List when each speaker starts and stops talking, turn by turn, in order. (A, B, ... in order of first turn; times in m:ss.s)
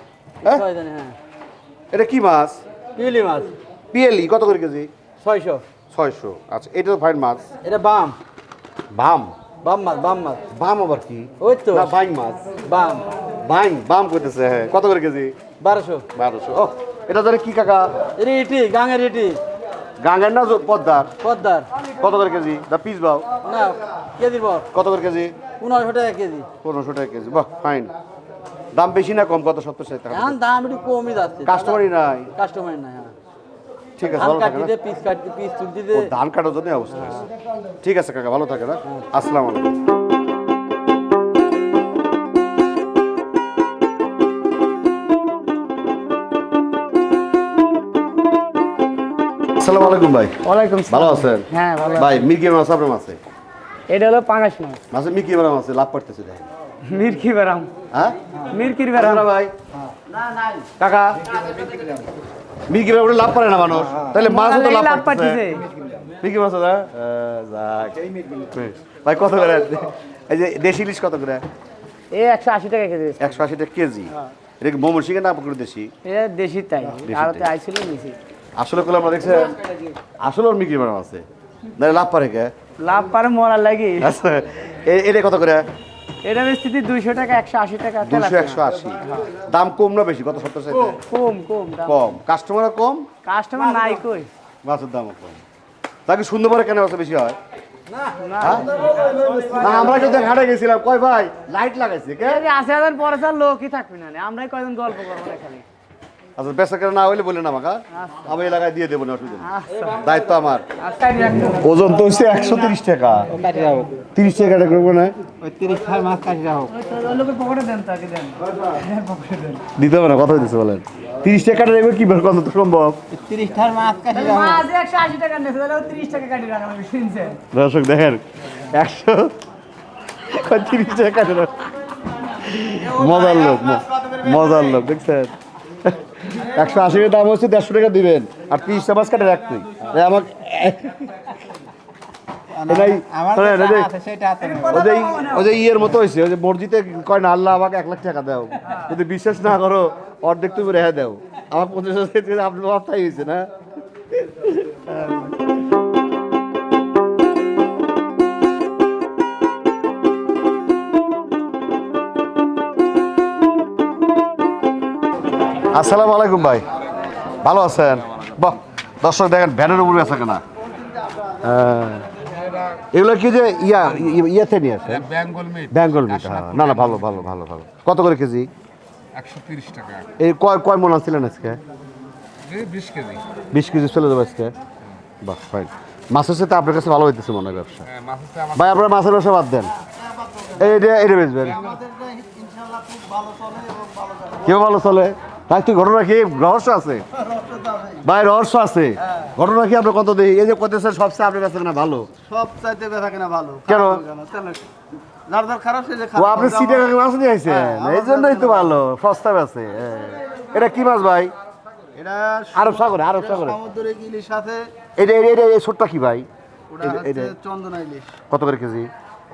0:00.4-0:01.1 A
0:01.9-0:02.6 B
0:03.0-0:03.5 A
0:03.9-0:04.9 B
0:05.2-0:05.6 A
0:05.9-0:07.4 B
0:07.6-0:08.2 A
0:08.9-0:09.3 B
0:09.6-0:10.4 A
0:10.5-0:12.5 B
0:11.4-0:11.9 A
0:12.6-0:13.1 A
0:13.4-0:15.3 B
0:15.6-0:16.0 A
0:16.1-0:17.9 B
0:18.2-0:19.4 A
0:20.0-0:21.1 B
0:21.2-0:21.7 A
0:22.0-0:23.3 B
0:23.4-0:24.7 A
0:24.7-0:25.3 B
0:25.6-0:26.5 A
0:26.6-0:27.9 B
0:28.7-0:30.4 B
0:30.1-0:33.1 A
0:31.4-0:32.3 B
0:34.0-0:34.7 B
0:34.1-0:36.1 A
0:35.9-0:37.3 B
0:37.8-0:39.7 B
0:49.6-0:53.2 B
0:50.4-0:52.2 C
0:53.9-0:54.8 C
0:54.9-0:56.4 B
0:56.8-0:57.7 C
0:58.5-0:59.2 C
0:58.9-0:59.5 B
1:00.8-1:01.2 B
1:02.7-1:05.4 B
1:04.2-1:05.6 C
1:06.2-1:11.4 B
1:12.1-1:13.2 C
1:13.2-1:15.9 B
1:16.0-1:18.2 C
1:17.0-1:17.5 B
1:18.6-1:19.6 B
1:20.2-1:21.2 B
1:21.8-1:22.5 B
1:22.8-1:24.1 C
1:24.0-1:25.6 B
1:26.2-1:28.6 C
1:28.0-1:31.0 B
1:30.9-1:31.9 C
1:31.8-1:33.1 B
1:33.2-1:34.3 C
1:34.6-1:35.4 B
1:36.0-1:37.4 B
1:38.0-1:39.7 C
1:38.4-1:38.8 B
1:39.4-1:42.4 B
1:42.2-1:45.6 C
1:46.4-1:50.6 B
1:49.4-1:50.0 C
1:50.8-1:51.5 C
1:51.5-1:53.3 B
1:53.4-1:53.9 A
1:54.1-1:55.2 B
1:55.4-1:56.7 A
1:55.5-1:56.6 D
1:56.7-1:59.6 C
1:59.7-2:03.0 B
2:03.2-2:03.9 D
2:03.2-2:04.6 A
2:04.0-2:07.4 C
2:07.5-2:09.3 B
2:10.2-2:11.7 B
2:12.3-2:15.3 B
2:15.8-2:21.3 B
2:22.6-2:24.0 B
2:22.9-2:24.5 D
2:24.1-2:24.4 A
2:24.6-2:33.5 B
2:34.1-2:35.3 B
2:45.7-2:46.7 B
2:47.3-2:50.4 B
2:51.4-2:52.1 B
2:52.7-2:58.5 B
2:55.2-2:55.6 E
2:59.2-3:00.0 E
3:00.2-3:01.6 B
3:02.5-3:03.2 E
3:03.5-3:04.5 B
3:05.2-3:07.9 B
3:08.0-3:08.5 E
3:08.5-3:09.7 B
3:10.5-3:11.7 B
3:11.8-3:14.3 D
3:14.4-3:17.0 B
3:18.0-3:22.1 B
3:22.3-3:24.6 D
3:23.6-3:24.0 B
3:25.3-3:26.7 D
3:26.1-3:31.3 B
3:27.9-3:28.5 D
3:32.0-3:32.5 D
3:32.5-3:33.6 B
3:33.3-3:34.7 D
3:35.0-3:36.3 B
3:36.8-3:37.3 B
3:36.8-3:38.1 D
3:38.3-3:38.9 B